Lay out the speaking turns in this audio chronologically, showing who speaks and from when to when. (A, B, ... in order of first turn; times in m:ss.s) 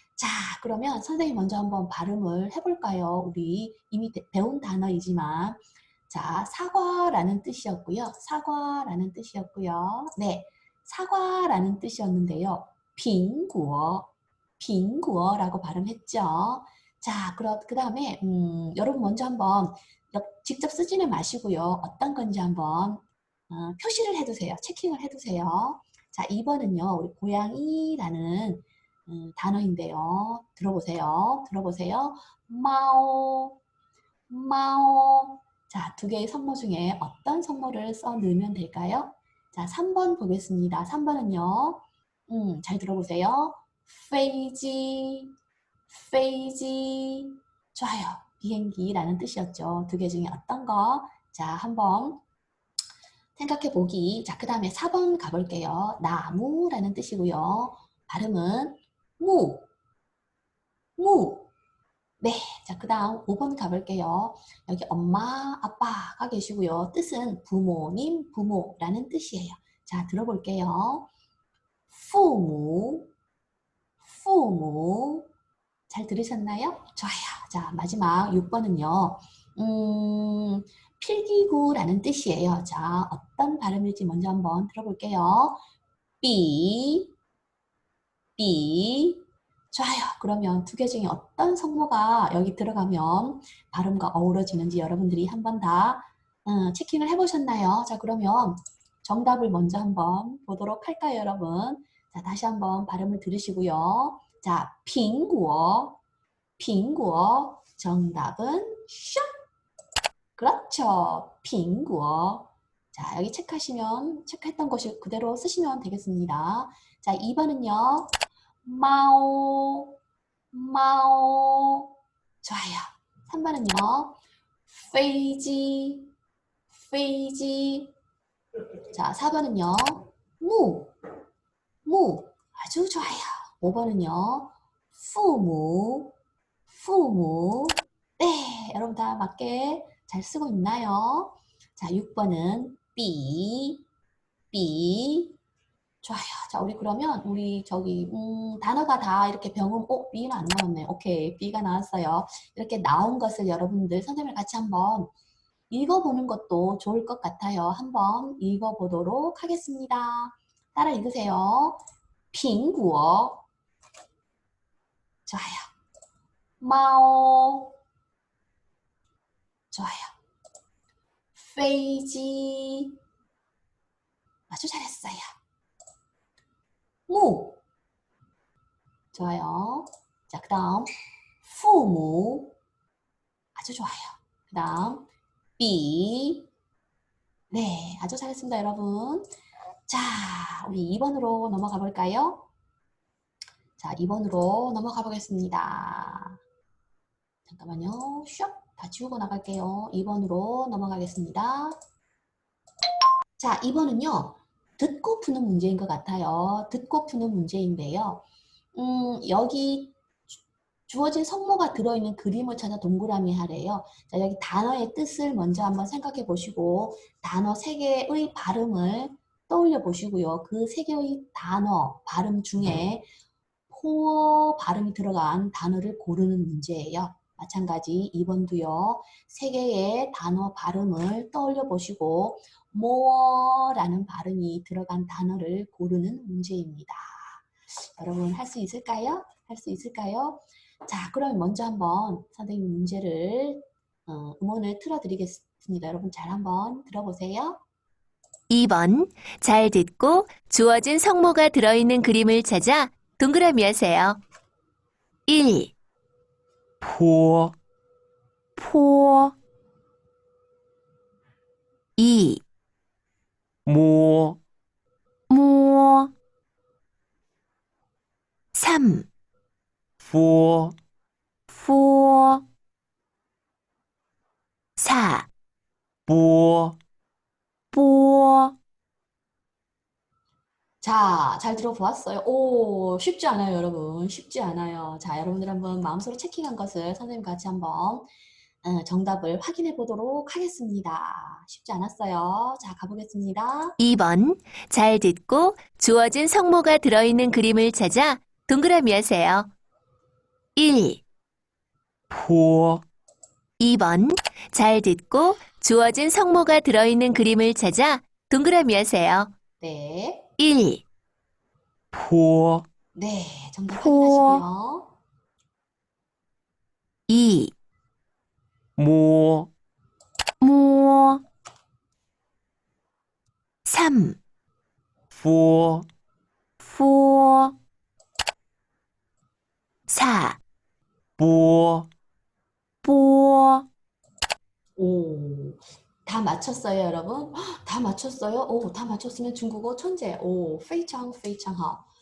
0:00.2-0:33.6 A
0:34.3-0:45.3 A
0:45.9-0:52.2 A
0:53.3-0:59.7 A
1:01.0-1:01.5 A
1:02.2-1:11.1 A
1:11.9-1:13.1 A
1:14.0-1:15.3 A
1:15.9-1:25.6 A
1:26.2-1:27.1 A
1:28.4-1:46.0 A
1:46.6-1:49.3 A
1:50.4-2:00.0 A
2:00.5-2:06.1 A
2:06.7-2:07.9 A
2:08.9-2:10.9 A
2:11.8-2:16.1 A
2:16.7-2:23.8 A
2:24.5-2:25.4 A
2:26.0-2:35.1 A
2:35.7-2:41.8 A
2:42.3-2:43.4 A
2:45.2-2:45.7 A
2:46.6-2:47.7 A
2:49.7-2:50.1 A
2:51.3-2:52.9 A
2:54.5-2:55.3 A
2:57.1-2:57.6 A
2:59.1-3:02.6 A
3:03.5-3:05.1 A
3:05.6-3:06.5 A
3:07.5-3:09.3 A
3:09.9-3:12.5 A
3:13.8-3:16.4 A
3:17.4-3:21.8 A
3:23.4-3:28.2 A
3:28.7-3:30.0 A
3:30.9-3:43.1 A
3:43.7-4:07.6 A
4:08.5-4:14.2 B
4:15.3-4:15.7 B
4:16.8-4:17.5 C
4:18.6-4:19.3 B
4:22.0-4:22.4 B
4:23.6-4:24.4 C
4:25.3-4:26.1 B
4:28.5-4:29.1 B
4:30.0-4:30.8 C
4:31.5-4:32.4 B
4:34.8-4:35.3 B
4:36.1-4:36.8 C
4:37.7-4:38.5 B
4:40.8-4:48.1 A
4:48.6-4:53.8 A
4:53.8-4:59.5 B
5:00.6-5:01.0 B
5:02.1-5:02.8 C
5:03.6-5:09.3 B
5:09.6-5:10.3 A
5:10.4-5:10.8 B
5:11.9-5:12.6 C
5:12.9-5:14.9 A
5:13.7-5:14.4 B
5:17.1-5:17.5 B
5:18.8-5:19.5 C
5:20.4-5:21.2 B
5:23.6-5:24.2 B
5:25.1-5:25.9 C
5:26.6-5:27.5 B
5:29.9-5:30.4 B
5:31.2-5:31.9 C
5:32.8-5:33.6 B
5:34.8-5:41.8 A